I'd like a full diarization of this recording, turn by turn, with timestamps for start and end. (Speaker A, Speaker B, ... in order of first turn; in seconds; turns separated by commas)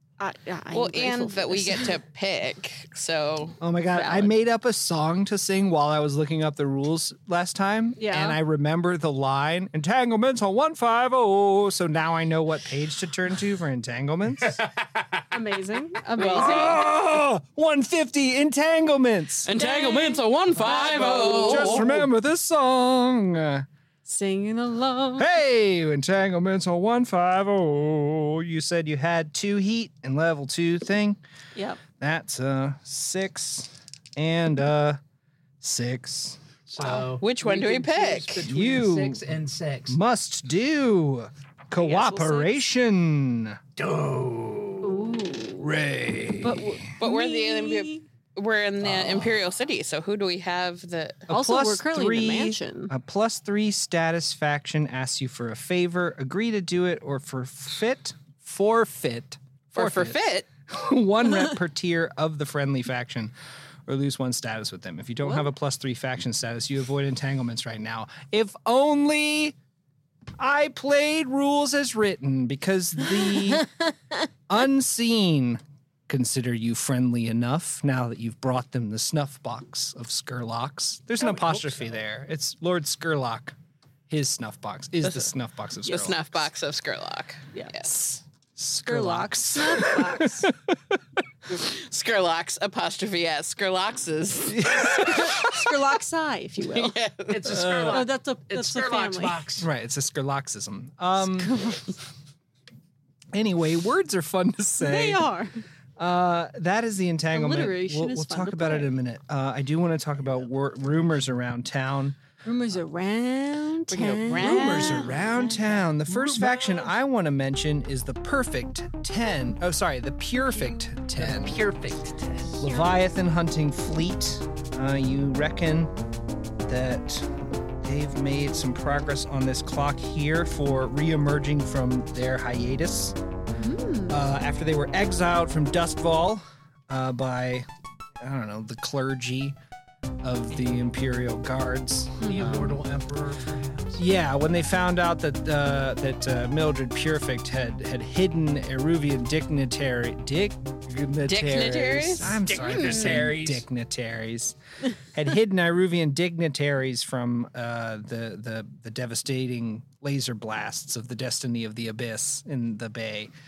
Speaker A: 0.2-1.9, Speaker B: 0.7-3.6, Speaker C: 3.6-14.6, Speaker A: 3.9-4.3, Speaker A: 8.0-8.4, Speaker D: 14.5-15.2, Speaker A: 15.3-16.8, Speaker B: 16.2-16.7, Speaker C: 16.2-19.5, Speaker B: 19.4-21.9, Speaker A: 19.5-21.8, Speaker D: 20.5-22.0, Speaker C: 21.3-23.6, Speaker A: 24.1-25.3, Speaker C: 25.2-31.2, Speaker A: 31.5-31.8, Speaker C: 32.0-35.0, Speaker C: 35.6-36.4, Speaker D: 36.7-40.0, Speaker B: 37.2-38.4, Speaker C: 38.4-39.3, Speaker C: 39.9-43.6, Speaker A: 41.7-42.6, Speaker D: 43.8-45.0, Speaker A: 44.8-45.7, Speaker C: 45.6-46.8, Speaker A: 46.4-48.0, Speaker B: 47.0-51.3, Speaker D: 48.8-49.4, Speaker C: 51.3-63.3, Speaker A: 51.3-52.9, Speaker B: 59.7-60.5, Speaker C: 63.9-69.5, Speaker C: 70.4-73.7, Speaker C: 74.5-83.5, Speaker D: 81.2-82.0, Speaker C: 84.1-86.5, Speaker B: 85.8-87.9, Speaker C: 87.9-90.8, Speaker A: 88.9-90.5, Speaker B: 91.5-95.4, Speaker C: 94.5-95.7, Speaker A: 94.8-97.0, Speaker B: 96.6-97.4, Speaker D: 97.3-99.7, Speaker C: 97.4-98.0, Speaker A: 97.7-99.4, Speaker C: 99.6-101.5, Speaker A: 101.2-102.0, Speaker C: 103.3-105.2, Speaker A: 104.8-105.6, Speaker C: 106.0-112.2, Speaker A: 107.3-108.9, Speaker A: 112.4-115.8, Speaker B: 113.9-115.2, Speaker C: 114.3-121.6, Speaker D: 116.1-116.9, Speaker D: 121.1-122.5, Speaker C: 122.6-125.9, Speaker C: 126.7-133.2, Speaker A: 133.6-134.2, Speaker C: 134.1-137.7, Speaker C: 138.2-139.6, Speaker C: 140.2-142.8, Speaker A: 142.2-142.7, Speaker D: 142.2-144.0, Speaker C: 143.9-154.6, Speaker B: 151.3-152.4, Speaker D: 152.3-153.7, Speaker C: 155.1-163.3